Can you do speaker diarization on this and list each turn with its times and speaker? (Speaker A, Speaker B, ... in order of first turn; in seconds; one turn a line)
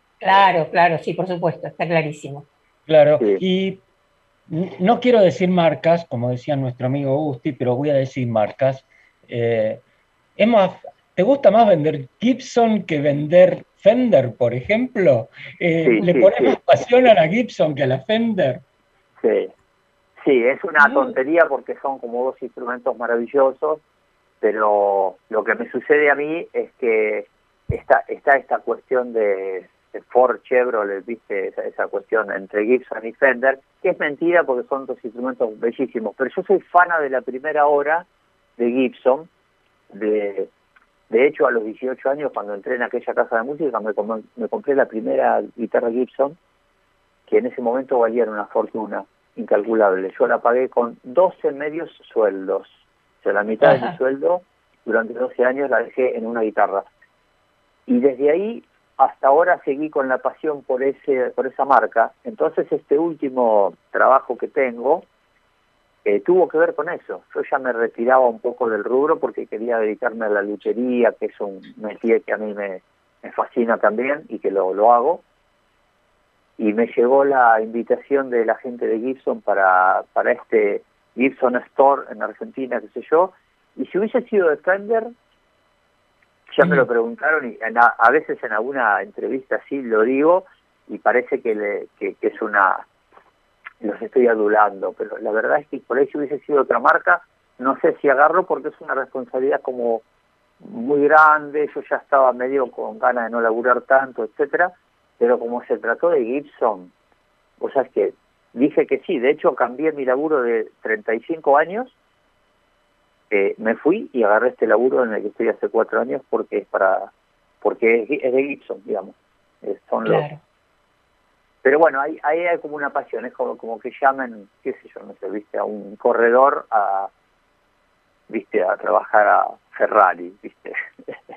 Speaker A: 0.2-2.5
Speaker B: 2.9-3.8
Speaker B: 4.5-9.8
Speaker B: 10.4-18.6
Speaker C: 15.8-16.6
Speaker C: 19.2-19.5
Speaker C: 20.2-23.8
Speaker A: 20.8-21.1
Speaker C: 24.4-38.0
Speaker C: 38.6-39.3
Speaker C: 39.9-40.5
Speaker C: 41.1-46.4
Speaker C: 47.3-56.9
Speaker C: 57.9-65.0
Speaker C: 66.0-75.2
Speaker C: 76.6-85.1
Speaker C: 86.5-92.8
Speaker C: 93.8-100.0
Speaker C: 100.6-106.9
Speaker C: 107.6-111.9
Speaker C: 113.3-117.1
Speaker C: 117.6-120.2
Speaker A: 120.0-120.4
Speaker C: 121.6-127.1
Speaker C: 128.3-131.1